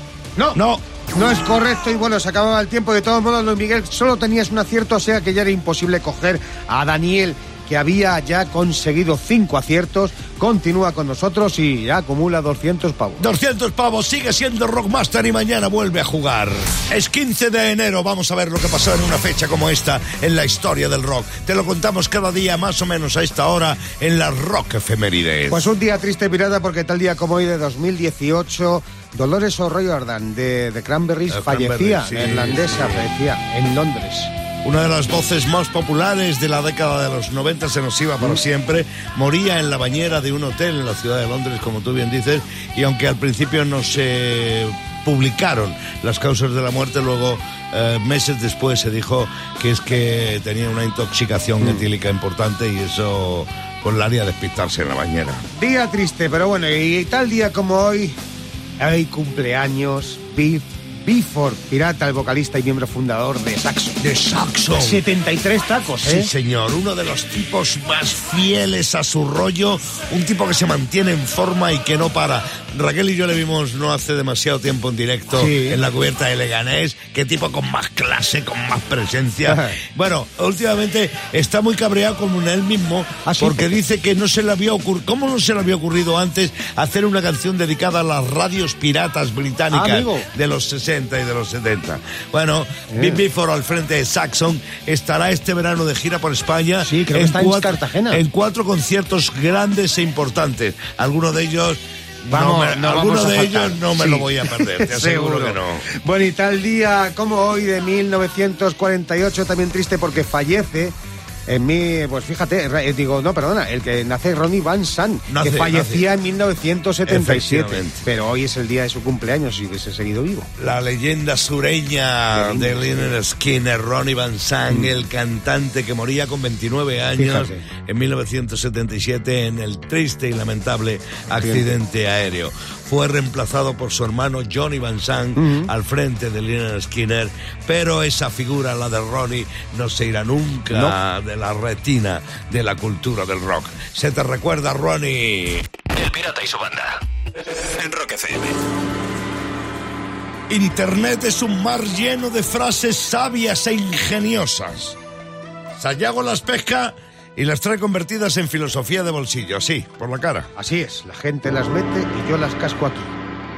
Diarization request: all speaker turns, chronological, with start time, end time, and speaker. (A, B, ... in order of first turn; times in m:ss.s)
0:00.5-0:00.8 A
0:01.1-0:13.2 B
0:13.2-0:25.7 A
0:25.5-0:34.3 B
0:31.3-0:33.1 A
0:34.6-0:55.4 A
0:55.5-0:58.2 B
0:58.8-1:04.0 B
1:04.0-1:05.0 A
1:04.7-1:06.3 B
1:06.0-1:45.8 A
1:15.3-1:15.8 B
1:19.5-1:19.8 B
1:23.2-1:23.7 B
1:29.7-1:30.2 B
1:32.9-1:33.2 B
1:36.8-1:38.2 B
1:42.3-1:50.9 B
1:51.5-2:00.5 B
1:55.3-1:56.1 A
1:57.0-1:58.1 A
2:00.6-2:25.7 A
2:02.3-2:02.7 B
2:07.2-2:07.6 B
2:11.4-2:11.6 B
2:15.4-2:15.7 B
2:20.7-2:21.0 B
2:25.9-2:27.0 C
2:27.7-2:28.6 C
2:30.5-2:35.0 A
2:35.8-2:40.5 A
2:40.6-2:43.2 B